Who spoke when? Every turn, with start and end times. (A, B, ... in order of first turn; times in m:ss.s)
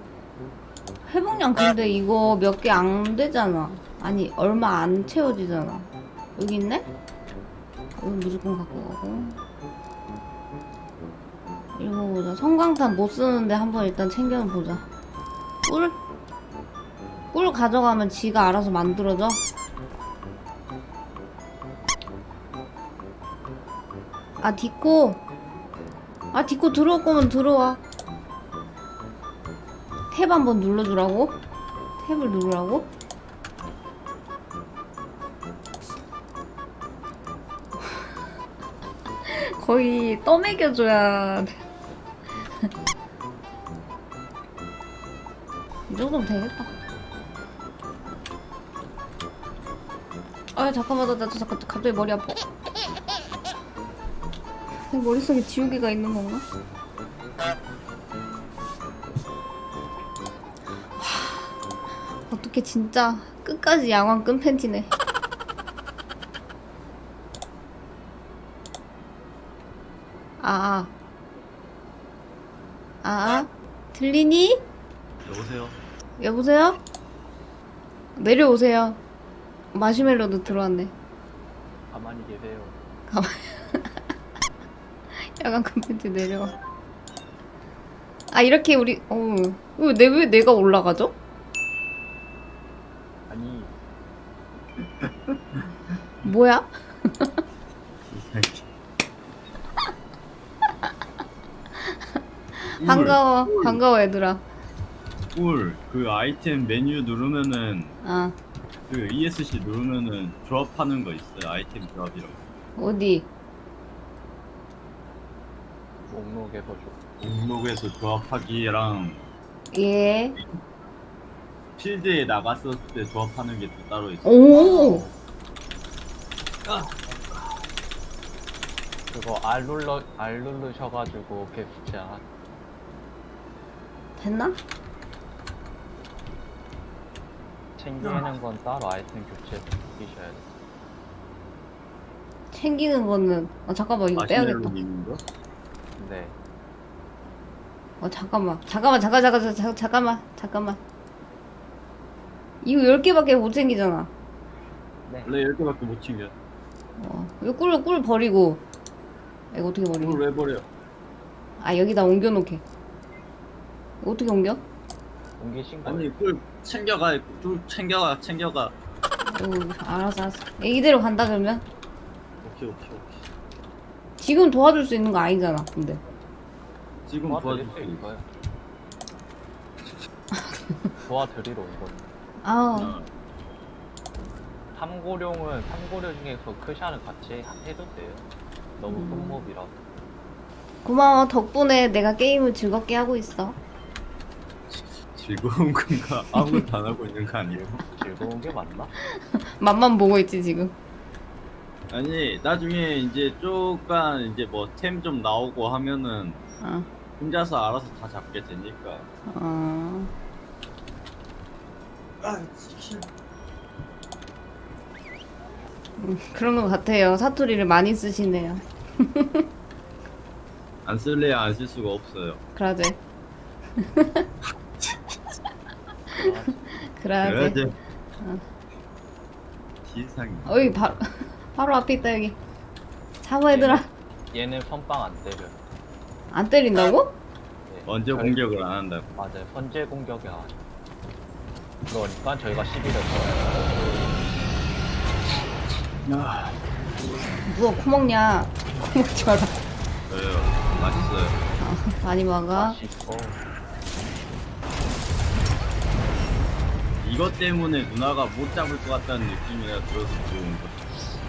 0:01.1-0:06.9 A
0:08.0-0:09.4 A
0:11.8-0:14.8 A
0:15.6-0:16.0 A
0:17.3-0:19.4 A
0:24.4-0:25.2 A
0:26.3-0:27.8 A
0:30.1-0:31.4 A
0:32.0-0:32.9 A
0:39.3-0:41.6 A
0:45.9-0:46.7 A
0:50.6-0:52.4 A
0:54.9-0:56.4 A
1:01.0-1:01.5 A
1:02.3-1:04.9 A
1:10.4-1:10.9 A
1:13.0-1:14.6 A
1:15.2-1:15.8 B
1:16.2-1:16.8 A
1:18.2-1:19.0 A
1:19.7-1:20.9 A
1:21.9-1:22.8 C
1:23.1-1:23.9 A
1:25.2-1:26.5 A
1:28.3-1:31.2 A
1:33.3-1:33.7 C
1:34.8-1:35.6 B
1:36.2-1:37.3 A
1:38.1-1:38.6 B
1:42.6-1:44.4 A
1:42.8-1:43.8 B
1:45.3-1:47.9 B
1:48.0-1:48.3 A
1:48.9-1:52.4 B
1:52.8-1:53.3 A
1:56.1-1:56.9 C
1:57.2-1:59.2 B
1:59.7-2:00.4 A
2:01.8-2:05.1 B
2:04.2-2:05.0 A
2:06.6-2:07.5 B
2:09.1-2:12.2 C
2:14.2-2:14.6 A
2:17.8-2:20.4 C
2:22.5-2:24.7 A
2:24.2-2:25.2 B
2:26.0-2:26.3 C
2:28.0-2:30.8 A
2:32.6-2:34.1 A
2:35.0-2:35.3 C
2:35.2-2:36.3 B
2:37.0-2:38.6 A
2:39.5-2:40.2 A
2:39.9-2:40.7 B
2:41.6-2:42.6 A
2:44.0-2:44.6 A
2:45.4-2:46.1 C
2:45.8-2:48.7 B
2:49.3-2:51.6 A
2:52.4-2:53.3 B
2:54.2-2:56.0 A
2:57.1-2:58.1 B
2:57.2-2:58.3 C
3:01.0-3:02.0 C
3:02.4-3:02.9 A
3:02.7-3:03.1 B
3:04.7-3:08.2 C
3:08.8-3:09.7 C
3:08.9-3:09.4 A
3:10.8-3:13.6 A
3:14.7-3:17.8 B
3:17.8-3:18.9 C
3:19.2-3:20.7 A
3:21.9-3:26.4 B
3:26.6-3:26.9 A
3:27.2-3:29.1 B
3:29.3-3:30.1 A
3:32.2-3:33.1 B
3:36.0-3:39.4 A
3:40.8-3:42.4 B
3:42.5-3:43.0 A
3:43.8-3:44.2 A
3:46.2-3:46.8 C
3:46.2-3:47.6 A
3:47.2-3:47.7 B
3:49.8-3:50.5 B
3:50.4-3:52.4 A
3:53.2-3:53.9 A
3:53.5-3:55.6 C
3:56.3-3:57.2 A
3:57.7-3:58.4 C
3:57.8-3:59.1 B
3:59.2-4:00.6 C
4:01.9-4:04.0 C
4:06.0-4:06.6 B
4:07.5-4:09.5 A
4:10.1-4:11.4 B
4:10.7-4:11.1 A
4:11.6-4:12.8 A
4:12.5-4:13.4 C
4:17.0-4:20.8 B